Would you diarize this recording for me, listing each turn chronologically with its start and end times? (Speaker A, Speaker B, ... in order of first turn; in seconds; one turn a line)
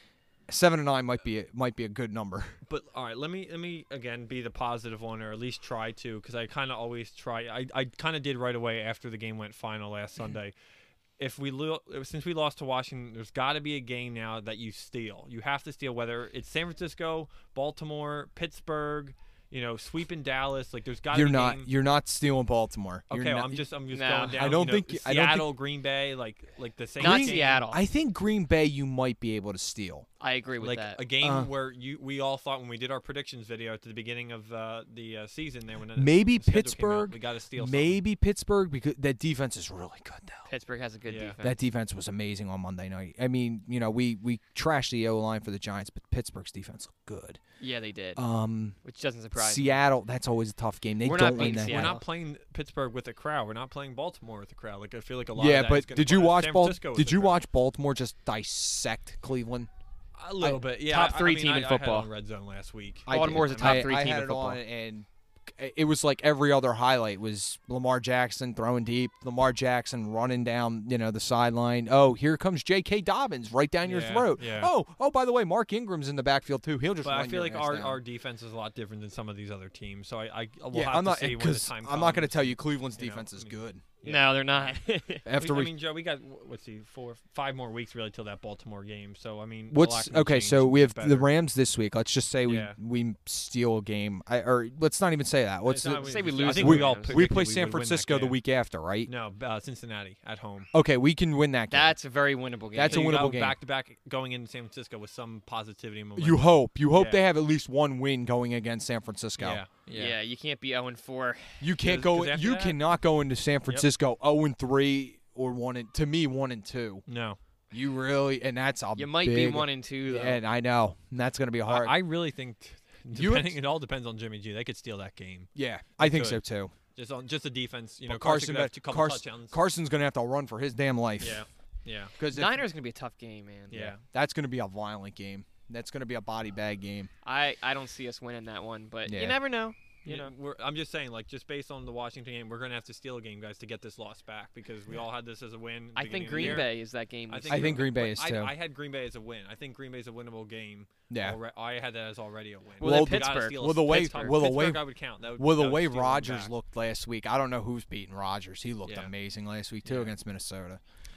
Speaker A: 0.5-2.6
Speaker B: 2.7-10.5
Speaker B: 11.2-21.7
Speaker A: 21.1-23.7
Speaker B: 23.1-27.6
Speaker C: 23.9-24.4
Speaker A: 24.3-25.5
Speaker A: 27.0-30.1
Speaker C: 27.0-27.8
Speaker C: 30.2-31.0
Speaker B: 30.6-38.0
Speaker A: 31.2-31.5
Speaker A: 36.0-40.5
Speaker C: 40.5-41.6
Speaker B: 41.1-41.4
Speaker A: 41.4-47.4
Speaker C: 47.6-48.2
Speaker A: 48.1-48.8
Speaker C: 48.8-49.8
Speaker A: 49.4-52.0
Speaker C: 51.0-52.0
Speaker B: 51.3-57.4
Speaker A: 55.4-59.7
Speaker B: 60.2-63.8
Speaker C: 60.8-62.1
Speaker A: 63.1-78.0
Speaker C: 63.1-64.6
Speaker B: 73.8-74.7
Speaker B: 77.0-84.7
Speaker A: 80.7-83.8
Speaker C: 84.0-85.2
Speaker A: 85.2-85.7
Speaker B: 85.3-91.3
Speaker A: 89.7-99.1
Speaker B: 92.5-92.8
Speaker B: 95.7-98.4
Speaker C: 95.8-97.3
Speaker B: 99.1-100.7
Speaker A: 100.7-101.9
Speaker C: 101.7-103.1
Speaker A: 102.7-103.6
Speaker B: 102.8-107.2
Speaker A: 106.2-109.6
Speaker B: 109.4-110.2
Speaker C: 109.9-111.6
Speaker A: 111.6-117.0
Speaker B: 111.8-112.8
Speaker B: 117.1-117.4
Speaker A: 117.7-121.9
Speaker C: 119.0-120.4
Speaker B: 121.6-126.4
Speaker A: 123.1-123.6
Speaker A: 125.5-126.7
Speaker B: 127.0-129.6
Speaker A: 128.1-131.4
Speaker B: 131.2-132.1
Speaker A: 132.2-132.6
Speaker C: 132.3-133.9
Speaker B: 133.7-134.0
Speaker A: 133.9-137.1
Speaker C: 137.2-140.3
Speaker A: 139.1-139.4
Speaker B: 140.1-146.7
Speaker C: 146.0-147.8
Speaker A: 146.4-146.6
Speaker B: 147.3-156.5
Speaker A: 147.5-148.5
Speaker A: 151.1-151.4
Speaker A: 152.8-154.8
Speaker C: 152.8-154.4
Speaker A: 155.4-160.8
Speaker B: 159.8-160.1